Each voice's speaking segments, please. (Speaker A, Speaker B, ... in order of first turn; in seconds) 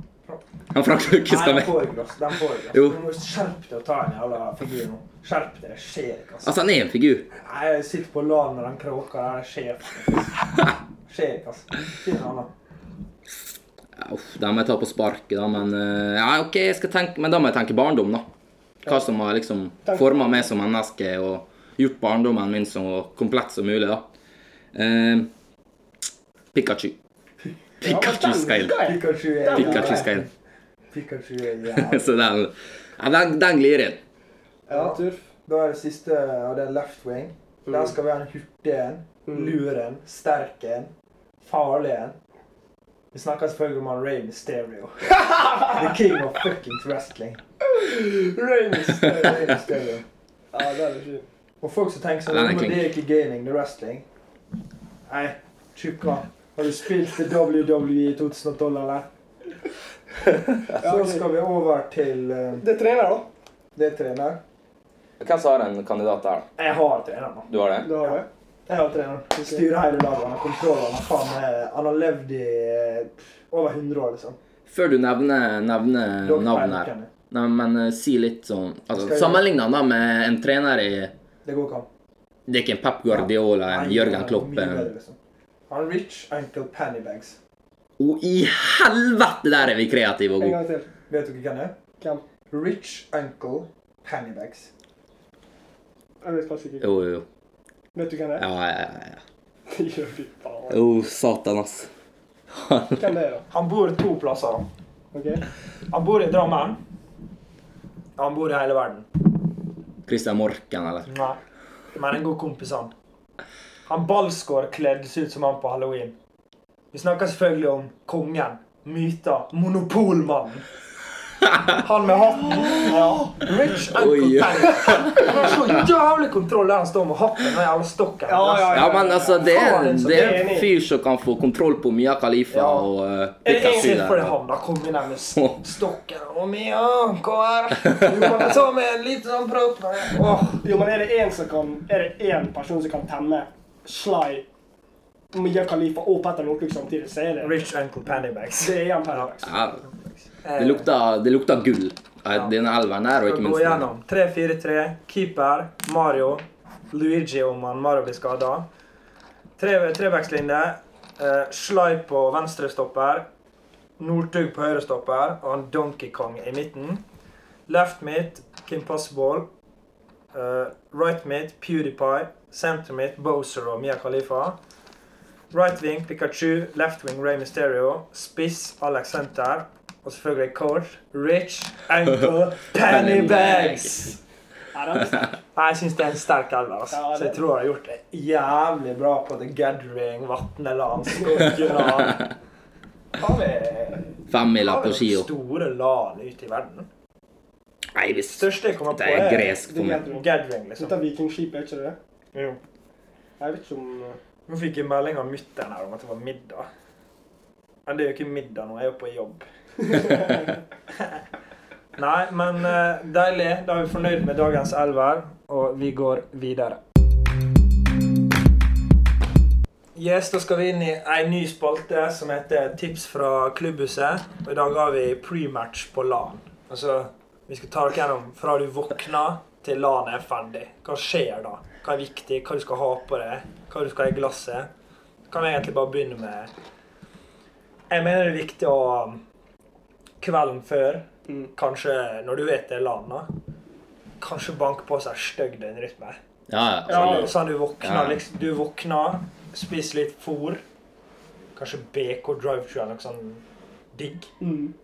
Speaker A: 0.7-1.8, 2.7-3.0, 6.4-7.3, 14.0-18.3, 18.9-24.1, 24.7-25.3, 26.5-26.9, 27.8-28.9, 29.5-30.3, 31.7-34.0, 52.3-52.9, 65.2-66.5, 67.5-67.9, 74.7-81.1, 82.5-84.9, 88.0-90.6, 96.8-97.2, 98.4-99.2, 100.7-101.9, 102.5-103.1, 110.1-111.1, 123.9-125.3, 128.7-134.3, 135.3-135.6, 149.4-149.8, 150.6-153.9, 182.8-183.9, 194.3-195.3, 197.9-200.1, 246.5-248.2
Speaker B: 1.2-6.5, 7.4-10.4, 11.1-12.5, 28.8-30.3, 30.9-32.2, 34.7-42.2, 43.1-47.4, 49.1-50.0, 51.6-54.0, 55.1-59.1, 60.7-62.6, 63.8-64.4, 66.6-74.4, 76.2-77.1, 78.9-79.4, 81.5-81.9, 83.1-85.2, 85.7-87.4, 91.1-91.8, 92.5-94.7, 103.5-104.7, 105.9-106.8, 108.2-109.1, 111.1-111.4, 112.0-112.9, 113.9-116.2, 116.9-120.7, 121.7-130.6, 132.5-132.9, 133.4-140.6, 147.4-149.3, 150.4-150.9, 153.2-158.7, 159.6-163.3, 164.0-167.0, 167.7-169.5, 170.3-174.6, 175.5-184.2, 185.6-192.2, 193.2-196.9, 198.3-201.0, 202.3-202.6, 204.5-206.7, 207.9-210.1, 210.9-211.2, 212.0-216.8, 219.9-234.7, 235.3-236.5, 237.9-239.2, 240.2-243.3, 244.2-246.2, 246.9-250.6, 251.6-254.3
Speaker C: 19.9-20.5, 27.8-30.1, 34.7-35.2, 39.3-39.6, 45.2-45.7, 47.6-49.5, 50.5-51.3, 60.8-61.3, 62.6-63.3, 67.8-68.3, 90.4-90.9, 96.2-96.9, 97.9-98.5, 99.7-100.8, 103.0-103.5, 105.1-105.5, 122.5-123.4, 128.3-130.7, 138.1-138.6, 140.6-144.5, 145.3-147.6, 148.6-149.6, 184.7-185.4, 186.9-187.4, 191.2-192.0, 199.6-200.3, 200.8-202.0, 203.4-204.2, 210.0-210.3, 246.9-247.3, 254.4-254.7